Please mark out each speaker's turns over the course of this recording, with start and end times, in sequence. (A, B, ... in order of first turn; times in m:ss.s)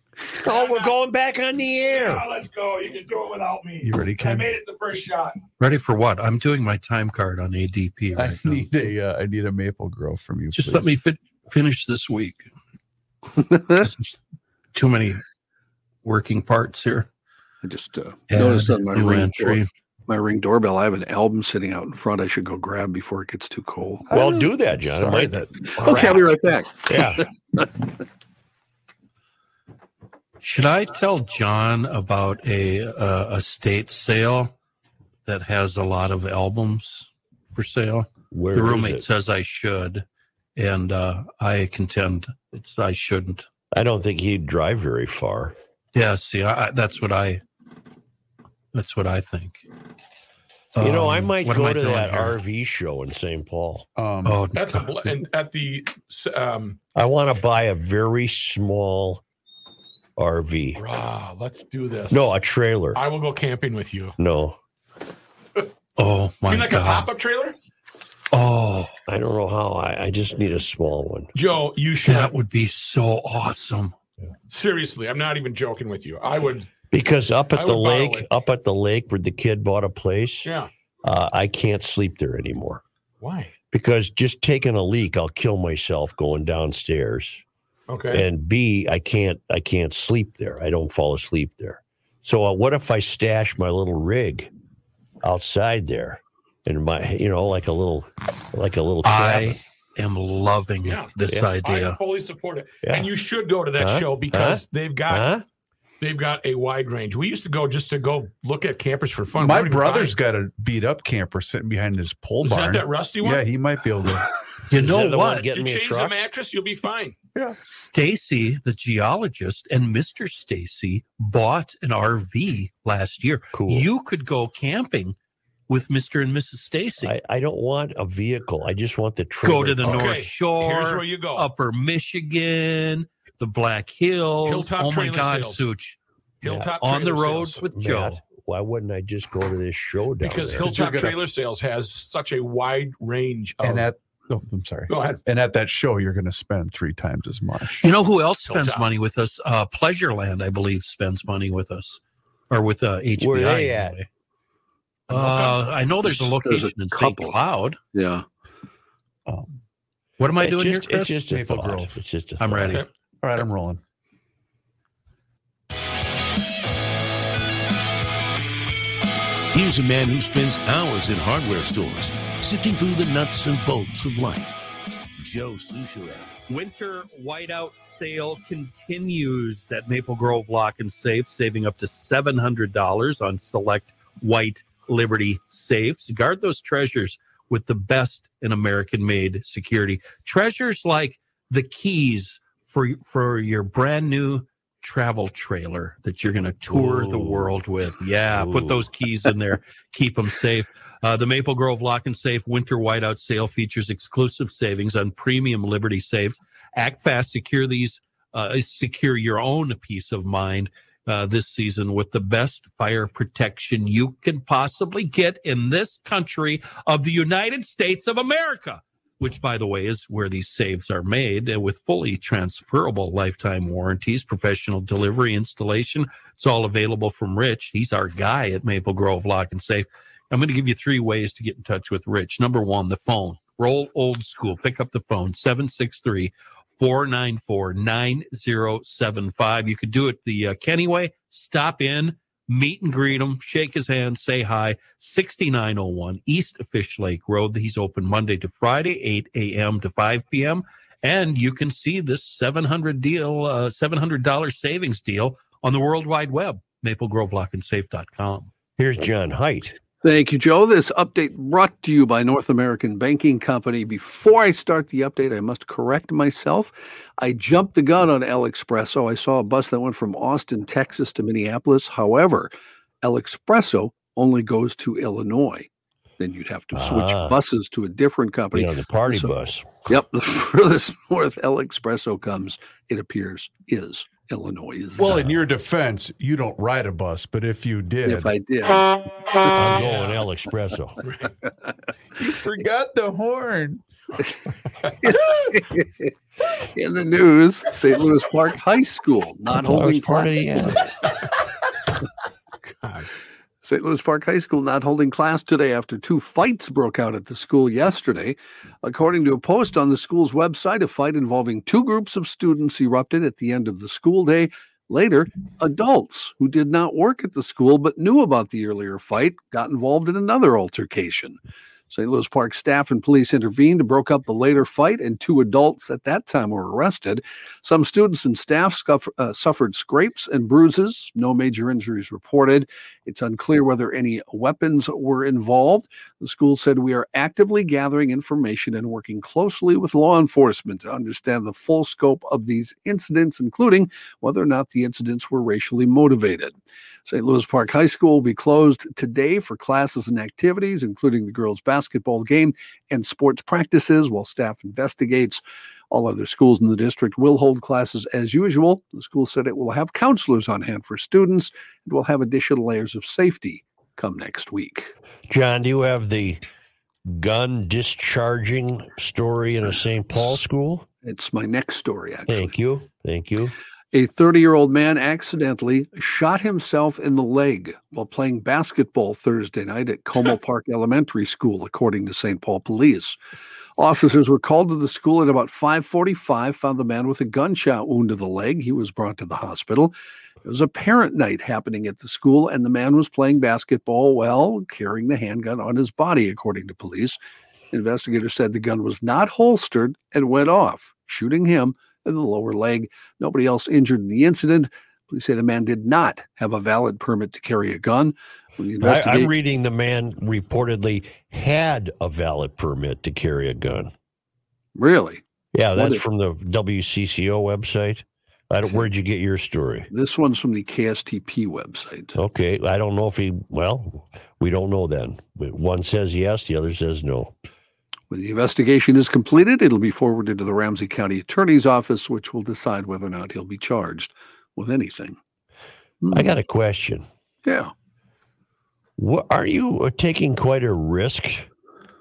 0:00.4-0:02.3 A
0:00.4-0:00.9 B
0:01.9-0:05.4 B
0:03.8-0:04.6 C
0:05.6-0:08.6 D
0:08.2-0:10.9 C
0:10.5-0:12.5 D
0:13.5-0:13.8 E
0:13.8-0:14.2 D
0:14.7-0:15.2 D
0:16.0-0:17.1 D
0:17.6-0:24.3 E
0:18.3-0:19.7 D
0:24.1-0:26.2 A
0:24.2-0:26.2 C
0:25.7-0:27.7 E
0:26.9-0:27.2 A
0:30.4-0:34.5 D
0:35.2-0:40.0 D
0:38.3-0:39.0 A
0:40.6-0:43.5 D
0:43.7-0:45.5 A
0:45.9-0:47.4 D
0:48.7-0:49.6 D
0:50.8-0:52.4 D
0:50.8-0:53.9 A
0:54.0-0:54.4 C
0:54.2-0:55.0 D
0:54.5-0:56.8 B
0:56.9-0:59.2 A
1:00.2-1:00.8 A
1:00.8-1:02.3 B
1:02.1-1:03.0 A
1:02.9-1:04.2 B
1:04.2-1:04.6 A
1:06.0-1:07.1 D
1:06.4-1:07.6 B
1:08.3-1:08.9 D
1:09.1-1:11.3 A
1:11.3-1:12.3 B
1:12.0-1:13.9 D
1:14.5-1:16.7 B
1:16.9-1:20.5 A
1:17.5-1:18.3 B
1:20.4-1:20.7 B
1:21.0-1:22.8 A
1:23.2-1:23.5 B
1:23.7-1:27.4 A
1:27.9-1:28.2 B
1:28.1-1:34.5 A
1:35.2-1:39.6 A
1:39.0-1:42.0 D
1:40.8-1:45.3 B
1:42.8-1:43.1 A
1:43.8-1:45.4 A
1:46.0-1:50.1 B
1:49.4-1:54.3 C
1:52.4-1:53.4 B
1:54.7-1:55.5 D
1:54.7-1:56.2 A
1:55.5-1:57.2 B
1:57.6-2:05.2 D
2:03.5-2:03.9 A
2:05.7-2:07.1 D
2:07.0-2:10.1 A
2:09.4-2:16.0 D
2:09.8-2:11.4 B
2:14.4-2:15.6 B
2:16.4-2:17.6 B
2:16.4-2:16.7 A
2:16.8-2:18.2 D
2:17.7-2:20.8 A
2:20.2-2:23.9 B
2:20.6-2:21.2 C
2:23.6-2:27.8 C
2:24.9-2:25.2 B
2:27.8-2:34.1 D
2:28.4-2:28.9 B
2:33.2-2:33.9 A
2:35.1-2:37.8 D
2:35.1-2:35.6 B
2:36.0-2:37.4 E
2:37.9-2:38.2 E
2:39.2-2:39.6 C
2:40.2-2:41.2 D
2:40.4-2:42.8 A
2:41.3-2:42.0 C
2:42.4-2:42.8 D
2:43.2-2:43.8 C
2:49.5-2:54.6 F
2:55.2-2:56.3 F
2:56.5-4:18.5 D
3:16.7-3:17.6 A
3:18.3-3:18.9 A
4:18.8-4:19.7 A
4:20.0-4:32.5 E
4:33.0-4:35.7 E
4:36.2-4:39.3 E
4:36.7-4:37.4 A
4:38.5-4:39.9 A
4:39.9-4:45.3 E
4:45.0-4:48.3 C
4:48.0-4:48.9 E
4:49.5-4:51.0 A
4:49.7-4:50.2 B
4:51.0-4:51.3 B
4:52.2-4:53.8 C
4:55.0-5:00.8 E
4:59.5-5:01.0 A
5:02.8-5:03.1 B
5:03.6-5:21.4 E
5:21.9-5:46.5 E
5:47.0-6:04.9 E
6:05.3-6:06.4 A
6:07.0-6:10.8 A
6:11.0-6:12.5 E
6:12.3-6:13.5 A
6:13.9-6:23.2 E
6:23.8-6:37.2 E
6:37.7-6:49.3 E
6:48.8-6:53.9 A
6:54.8-6:55.2 E
6:55.5-6:59.9 A
6:55.7-6:56.0 E
6:59.9-7:02.2 E
7:02.1-7:07.3 A
7:08.1-7:15.2 E
7:16.0-7:16.3 E
7:16.1-7:17.0 A
7:17.4-7:17.7 E
7:19.0-7:21.5 A